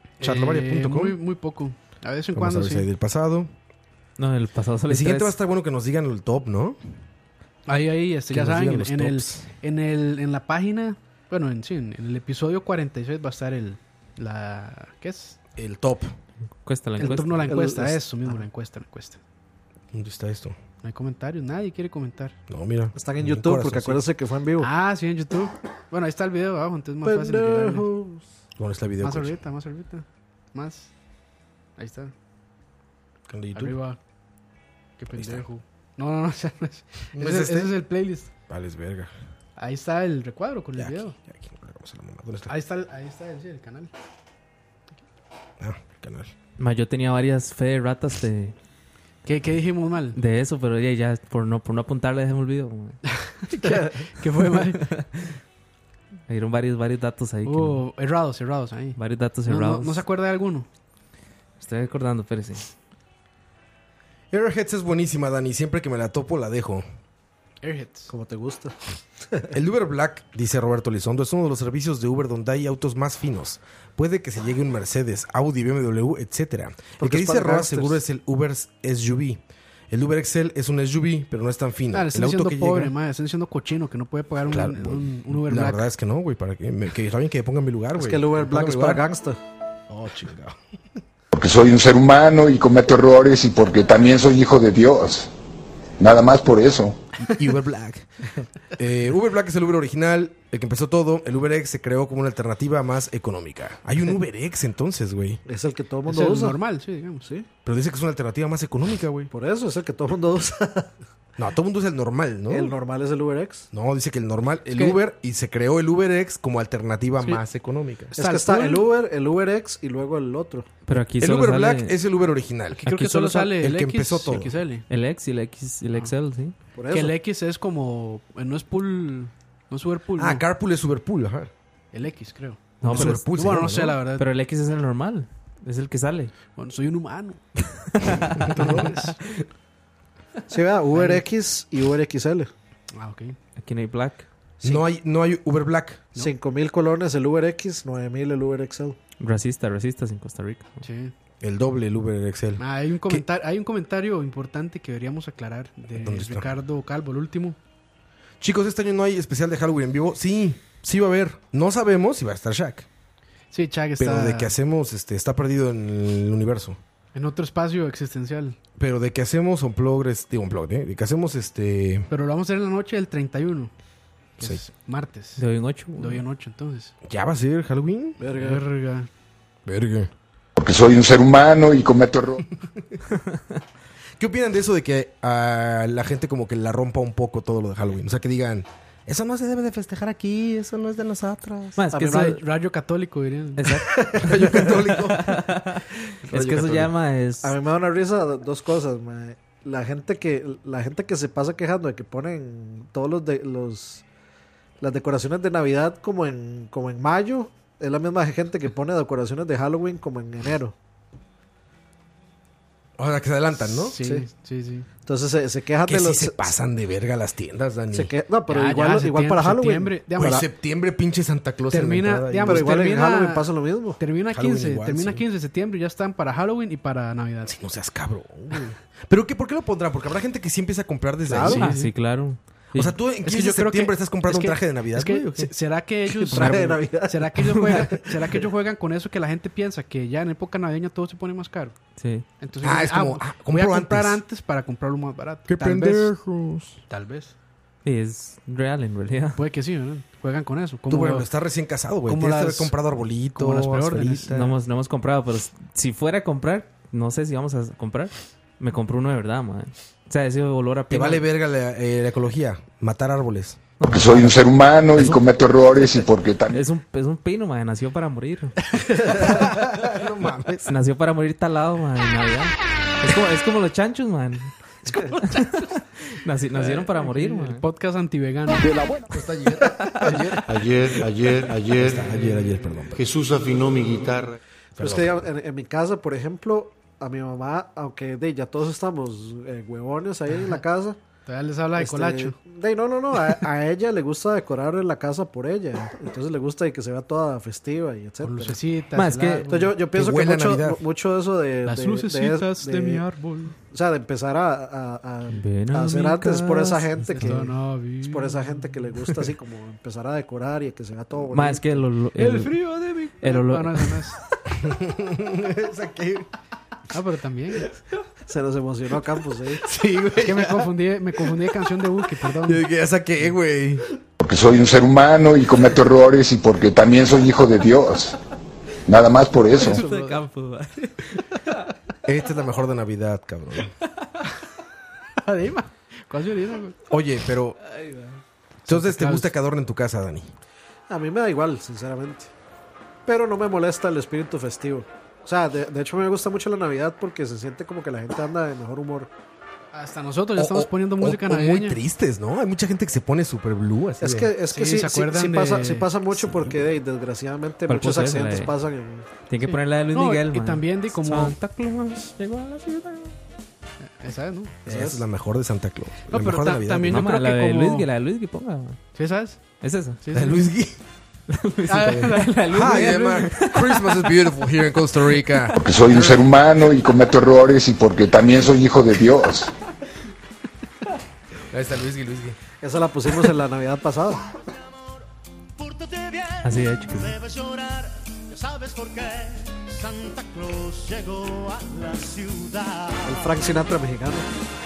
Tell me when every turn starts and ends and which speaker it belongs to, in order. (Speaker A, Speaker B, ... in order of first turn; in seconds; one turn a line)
Speaker A: 0.2-1.2
Speaker B: 0.2-2.9
Speaker A: 2.3-3.5
Speaker C: 4.2-5.3
Speaker A: 4.9-6.8
Speaker B: 7.7-15.4
Speaker A: 8.3-9.4
Speaker A: 15.6-16.1
Speaker C: 16.6-17.5
Speaker B: 17.0-19.2
Speaker D: 17.4-18.4
Speaker A: 19.9-20.6
Speaker B: 20.8-22.4
Speaker A: 22.5-24.0
Speaker D: 22.9-24.7
Speaker B: 24.6-27.9
Speaker D: 27.0-28.2
Speaker A: 28.6-29.4
Speaker B: 29.0-30.9
Speaker B: 31.8-32.1
Speaker A: 33.3-33.8
Speaker B: 33.5-34.0
Speaker B: 35.0-38.3
Speaker A: 35.1-35.5
Speaker A: 37.1-37.7
Speaker A: 38.5-39.1
Speaker B: 39.6-41.1
Speaker A: 40.8-42.5
Speaker B: 42.5-43.9
Speaker A: 45.6-46.3
Speaker C: 46.6-48.5
Speaker B: 49.2-50.2
Speaker C: 50.1-53.0
Speaker B: 53.3-54.9
Speaker C: 54.8-55.3
Speaker C: 56.3-57.8
Speaker B: 57.4-60.7
Speaker C: 59.0-60.0
Speaker C: 61.6-62.7
Speaker A: 64.3-66.8
Speaker B: 67.6-68.1
Speaker D: 68.1-68.7
Speaker A: 69.5-82.9
Speaker D: 77.0-78.0
Speaker B: 81.9-85.8
Speaker A: 84.5-89.0
Speaker D: 88.0-89.4
Speaker A: 89.9-90.6
Speaker E: 91.3-95.3
Speaker E: 96.0-97.0
Speaker A: 97.2-98.1
Speaker A: 98.7-105.4
Speaker D: 105.5-106.5
Speaker B: 106.0-107.3
Speaker A: 107.6-109.3
Speaker D: 109.3-110.9
Speaker A: 111.4-112.8
Speaker D: 112.5-113.7
Speaker A: 113.7-118.1
Speaker B: 114.7-115.0
Speaker D: 118.1-120.7
Speaker B: 118.2-118.8
Speaker C: 120.8-121.9
Speaker A: 121.2-124.5
Speaker B: 122.7-124.8
Speaker C: 124.9-126.5
Speaker D: 126.8-127.2
Speaker B: 126.9-130.4
Speaker A: 130.2-131.5
Speaker B: 131.9-134.2
Speaker C: 132.8-136.3
Speaker A: 132.8-133.9
Speaker B: 136.6-137.4
Speaker C: 138.0-138.7
Speaker A: 138.5-138.9
Speaker B: 138.5-139.2
Speaker D: 140.5-142.5
Speaker B: 140.9-141.2
Speaker B: 142.9-143.3
Speaker C: 143.6-144.2
Speaker A: 144.6-146.0
Speaker D: 146.2-149.0
Speaker C: 149.2-150.8
Speaker B: 150.8-151.1
Speaker A: 151.4-153.2
Speaker B: 152.6-157.6
Speaker A: 155.9-156.5
Speaker A: 158.4-162.9
Speaker B: 163.5-164.5
Speaker A: 164.0-166.8
Speaker B: 167.1-168.6
Speaker A: 168.8-172.1
Speaker B: 172.1-173.7
Speaker B: 174.4-175.4
Speaker C: 175.4-176.2
Speaker B: 175.9-176.9
Speaker A: 177.0-178.2
Speaker D: 178.2-178.6
Speaker B: 178.4-179.1
Speaker A: 179.7-180.1
Speaker E: 180.6-182.4
Speaker A: 184.2-191.8
Speaker C: 191.8-192.4
Speaker D: 191.9-192.3
Speaker B: 192.1-193.8
Speaker C: 193.6-197.5
Speaker A: 193.9-195.6
Speaker A: 196.2-196.9
Speaker D: 197.4-204.0
Speaker D: 204.8-210.7
Speaker A: 213.0-214.0
Speaker B: 213.6-214.9
Speaker D: 214.0-214.2
Speaker D: 215.1-216.5
Speaker A: 215.8-218.1
Speaker D: 217.9-220.4
Speaker B: 218.5-220.4
Speaker A: 220.2-222.9
Speaker B: 221.7-227.6
Speaker D: 222.4-224.0
Speaker A: 224.3-225.2
Speaker A: 227.5-231.6
Speaker D: 231.3-231.6
Speaker B: 231.4-231.9
Speaker C: 231.6-232.9
Speaker A: 232.7-235.5
Speaker B: 233.2-241.7
Speaker D: 236.1-238.4
Speaker C: 242.0-242.2
Speaker B: 242.4-246.1
Speaker A: 242.6-244.2
Speaker A: 245.5-246.8
Speaker B: 246.9-247.3
Speaker C: 247.8-249.4
Speaker B: 249.3-251.3
Speaker A: 250.9-254.5
Speaker B: 252.1-252.8
Speaker B: 253.3-254.3
Speaker C: 254.3-261.2
Speaker A: 260.9-263.6
Speaker C: 263.8-264.4
Speaker E: 263.9-266.6
Speaker C: 266.5-268.6
Speaker A: 269.1-270.7
Speaker C: 270.7-274.5
Speaker B: 274.9-275.7
Speaker C: 275.3-277.6
Speaker B: 276.6-278.7
Speaker A: 279.1-280.4
Speaker F: 280.4-282.1
Speaker A: 281.8-283.0
Speaker F: 282.9-284.4
Speaker A: 284.8-285.2
Speaker D: 284.8-291.0
Speaker B: 291.3-292.3
Speaker D: 291.8-298.6
Speaker B: 298.2-299.7
Speaker C: 298.9-299.5
Speaker D: 299.5-303.0
Speaker A: 299.9-300.8
Speaker B: 301.6-303.5
Speaker D: 303.7-311.9
Speaker C: 305.3-307.3
Speaker B: 307.1-308.8
Speaker C: 311.3-312.6
Speaker B: 312.2-314.2
Speaker C: 313.2-314.0
Speaker A: 314.6-316.3
Speaker B: 316.9-317.6
Speaker D: 318.3-319.6
Speaker A: 319.7-320.7
Speaker B: 320.1-322.6
Speaker A: 322.4-323.8
Speaker E: 324.2-328.1
Speaker E: 328.9-329.8
Speaker C: 329.6-331.2
Speaker B: 329.6-330.2
Speaker A: 332.0-333.7
Speaker B: 335.2-336.8
Speaker A: 336.9-337.6
Speaker C: 337.7-338.1
Speaker A: 338.6-340.3
Speaker B: 338.7-339.3
Speaker D: 340.9-342.3
Speaker D: 343.1-349.1
Speaker B: 349.7-351.8
Speaker A: 350.4-354.3
Speaker D: 354.0-359.1
Speaker B: 354.5-355.9
Speaker A: 356.1-356.6
Speaker C: 357.7-358.5
Speaker C: 359.3-363.1
Speaker B: 359.4-361.4
Speaker B: 364.0-364.6
Speaker D: 364.6-365.0
Speaker A: 364.6-367.0
Speaker B: 366.1-367.9
Speaker C: 366.9-368.8
Speaker B: 368.9-369.4
Speaker C: 369.6-370.0
Speaker B: 370.0-370.4
Speaker A: 370.1-370.8
Speaker C: 371.3-374.1
Speaker B: 371.7-372.9
Speaker A: 372.5-375.7
Speaker E: 375.6-379.5
Speaker A: 381.5-382.4
Speaker D: 382.6-384.2
Speaker G: 385.6-393.4
Speaker C: 386.4-387.2
Speaker D: 393.0-394.2